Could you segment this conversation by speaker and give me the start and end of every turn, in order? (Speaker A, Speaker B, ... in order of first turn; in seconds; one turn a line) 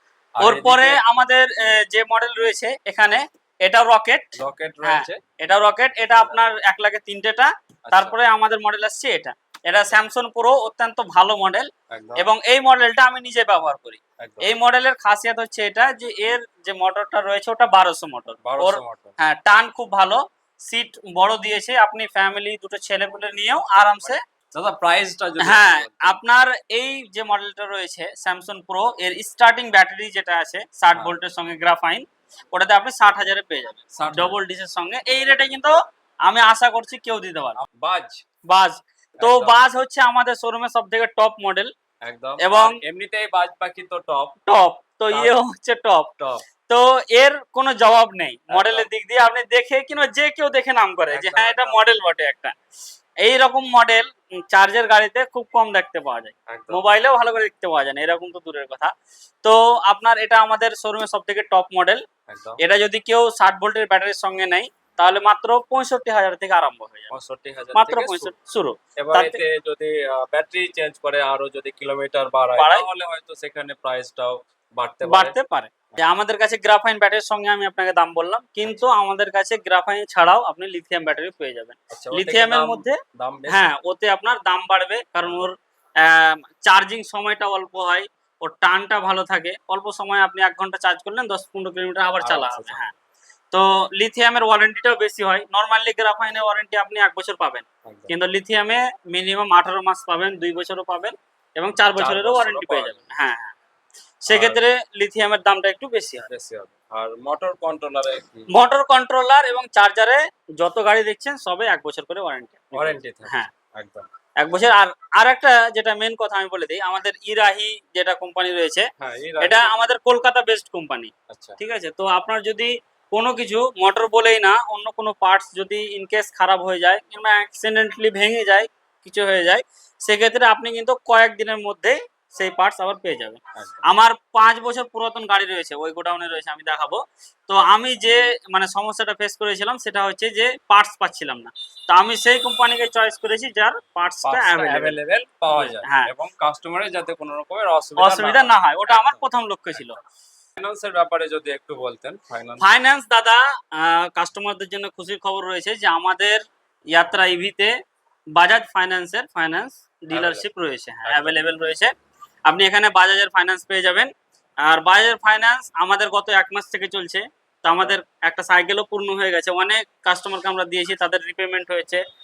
Speaker A: 0.4-1.0
Speaker B: 0.4-24.2
Speaker A: 4.4-5.2
Speaker A: 6.2-6.5
Speaker A: 7.8-8.2
Speaker A: 9.7-10.0
Speaker A: 11.9-12.2
Speaker A: 14.2-14.5
Speaker A: 18.4-19.1
Speaker A: 24.5-26.2
Speaker B: 25.4-37.6
Speaker A: 34.0-34.4
Speaker A: 37.6-38.2
Speaker B: 38.5-41.7
Speaker A: 39.2-39.6
Speaker A: 42.0-44.4
Speaker B: 42.4-42.8
Speaker B: 44.5-46.1
Speaker B: 46.7-52.5
Speaker A: 48.5-48.9
Speaker A: 51.1-51.8
Speaker B: 53.2-62.0
Speaker A: 56.5-56.8
Speaker A: 62.3-62.6
Speaker B: 62.6-67.1
Speaker A: 67.1-68.3
Speaker B: 67.7-69.4
Speaker A: 69.0-75.4
Speaker B: 72.5-72.9
Speaker B: 75.0-92.9
Speaker A: 78.6-78.9
Speaker A: 81.9-83.7
Speaker A: 85.2-85.5
Speaker A: 92.2-92.9
Speaker B: 93.5-103.5
Speaker A: 97.8-98.1
Speaker A: 102.0-103.0
Speaker B: 104.2-106.3
Speaker A: 104.3-104.6
Speaker A: 106.3-108.5
Speaker B: 108.5-113.5
Speaker A: 112.7-114.1
Speaker B: 114.4-118.9
Speaker A: 119.0-119.7
Speaker B: 119.4-145.0
Speaker A: 121.3-121.6
Speaker A: 133.6-133.8
Speaker A: 144.2-149.2
Speaker B: 145.5-146.1
Speaker B: 148.0-150.0
Speaker A: 150.6-152.7
Speaker B: 152.6-157.7
Speaker B: 158.3-161.9
Speaker A: 160.1-160.4
Speaker A: 161.1-161.4
Speaker B: 162.5-164.1
Speaker B: 164.6-172.0
Speaker A: 167.7-168.0